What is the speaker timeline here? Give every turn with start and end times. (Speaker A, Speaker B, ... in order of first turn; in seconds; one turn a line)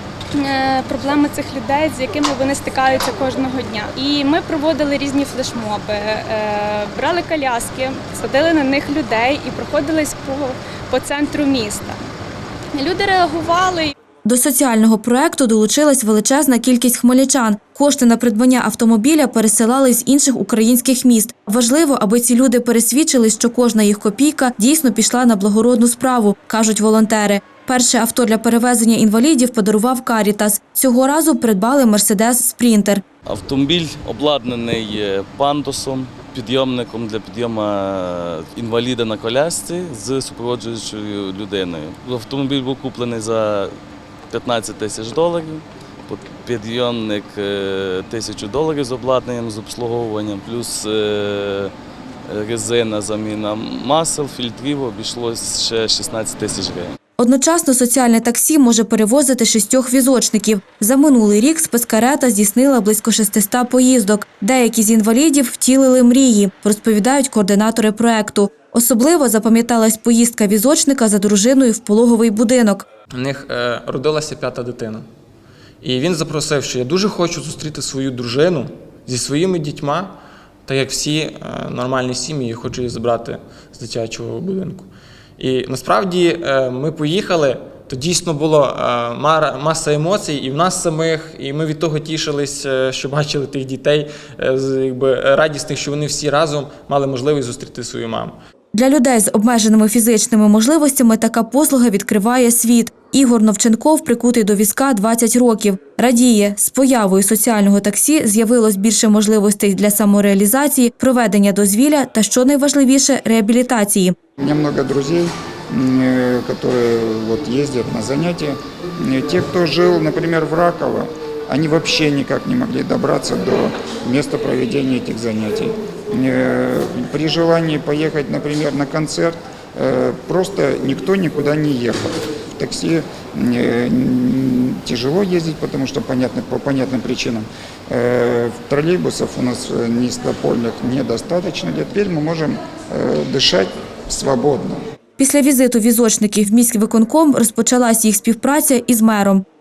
Speaker A: 0.3-12.0
Speaker A: 12.7-13.9
Speaker B: 14.2-33.0
Speaker C: 33.2-43.7
Speaker C: 44.3-51.7
Speaker C: 52.3-56.9
Speaker B: 57.2-72.8
Speaker D: 73.1-75.1
Speaker D: 75.8-80.2
Speaker D: 80.7-84.9
Speaker D: 85.4-98.3
Speaker B: 98.7-114.2
Speaker E: 114.4-144.8
Speaker B: 145.2-149.4